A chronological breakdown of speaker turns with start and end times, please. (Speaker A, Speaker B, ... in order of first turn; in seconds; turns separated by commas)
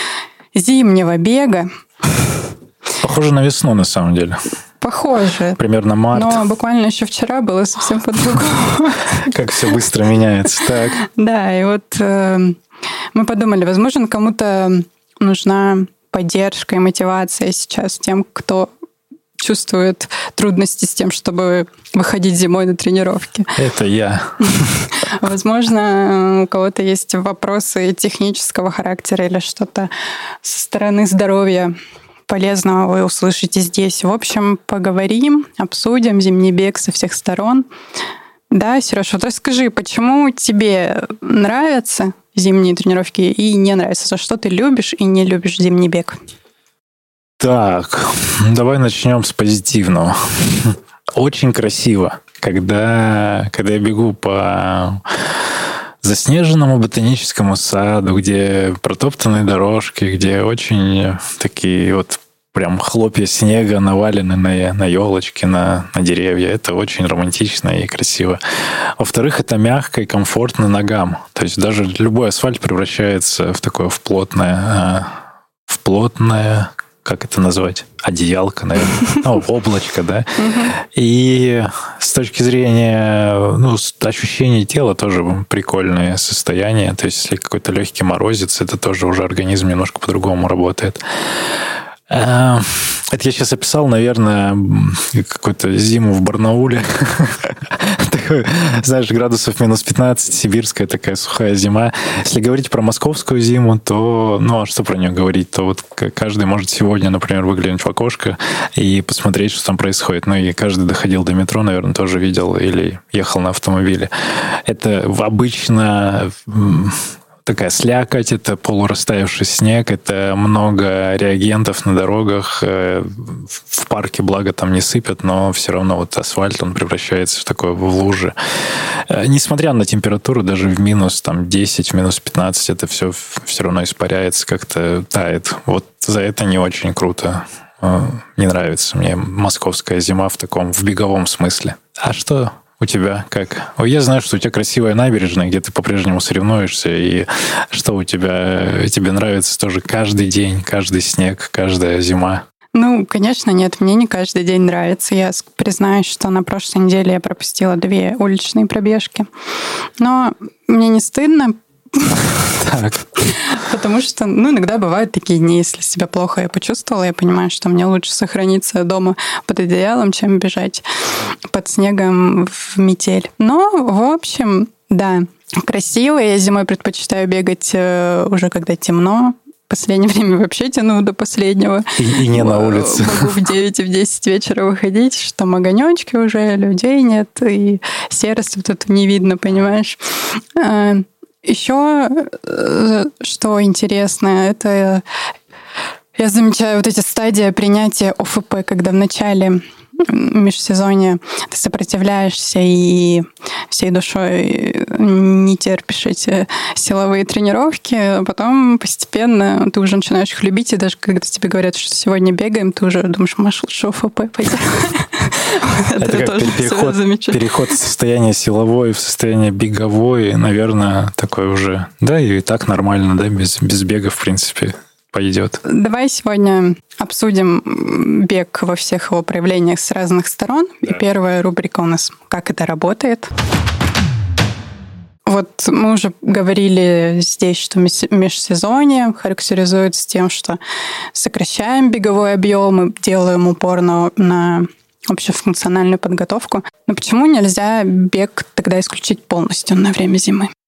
Speaker A: 0.5-2.3, Speaker B: 3.0-4.4, Speaker A: 4.8-5.6, Speaker B: 5.6-6.4, Speaker A: 6.1-9.3, Speaker B: 9.3-11.0, Speaker A: 10.9-12.6, Speaker A: 13.1-18.7, Speaker A: 19.4-23.6, Speaker B: 23.6-24.5, Speaker A: 24.5-29.9, Speaker A: 30.4-31.7, Speaker A: 32.3-37.7, Speaker A: 38.5-46.2, Speaker B: 47.4-55.5, Speaker B: 56.0-75.2, Speaker B: 75.7-91.0, Speaker A: 80.4-80.7, Speaker B: 92.1-152.4, Speaker A: 152.8-159.3, Speaker A: 160.0-170.8, Speaker B: 162.6-163.1, Speaker A: 171.5-195.0, Speaker B: 182.0-183.4, Speaker A: 196.2-217.9, Speaker B: 216.0-225.6, Speaker A: 225.6-233.3, Speaker A: 235.3-240.6, Speaker A: 241.1-250.5